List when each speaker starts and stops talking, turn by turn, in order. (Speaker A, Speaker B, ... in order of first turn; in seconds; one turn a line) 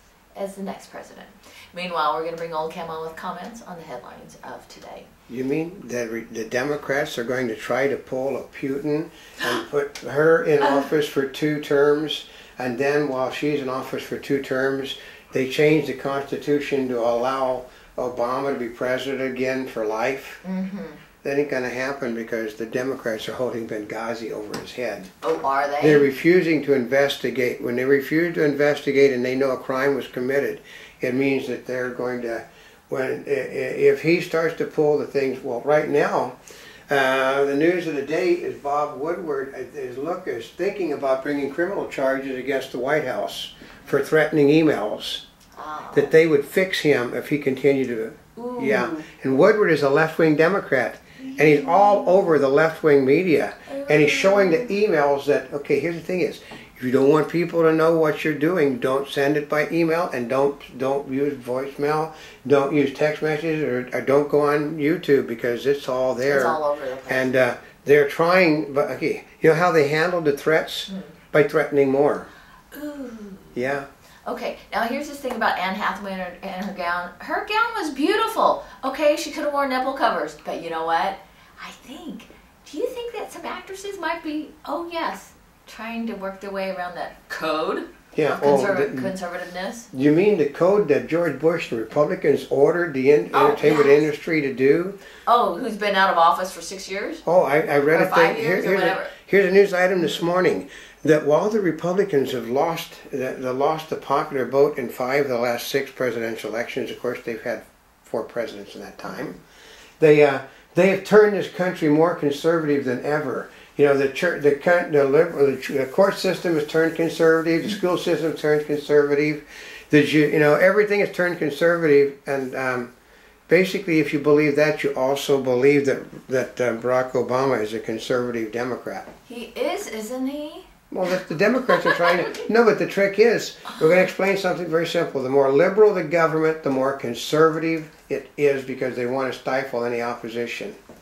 Speaker A: 0.3-5.1
Speaker B: 5.3-20.4
Speaker A: 20.4-21.0
Speaker B: 21.2-25.1
Speaker A: 25.2-26.1
Speaker B: 25.8-36.4
Speaker B: 36.9-45.2
Speaker A: 45.6-46.1
Speaker B: 45.9-72.3
Speaker A: 48.4-49.1
Speaker A: 51.2-52.3
Speaker A: 53.7-54.8
Speaker A: 66.2-67.3
Speaker A: 70.9-71.1
Speaker A: 72.7-73.5
Speaker B: 73.5-73.9
Speaker A: 74.3-89.9
Speaker B: 88.2-89.1
Speaker B: 89.9-95.0
Speaker A: 93.3-94.1
Speaker A: 95.3-97.2
Speaker B: 97.2-109.4
Speaker A: 97.9-99.1
Speaker B: 110.0-122.9
Speaker B: 123.5-129.1
Speaker A: 129.3-131.1
Speaker B: 130.9-140.8
Speaker A: 131.7-132.5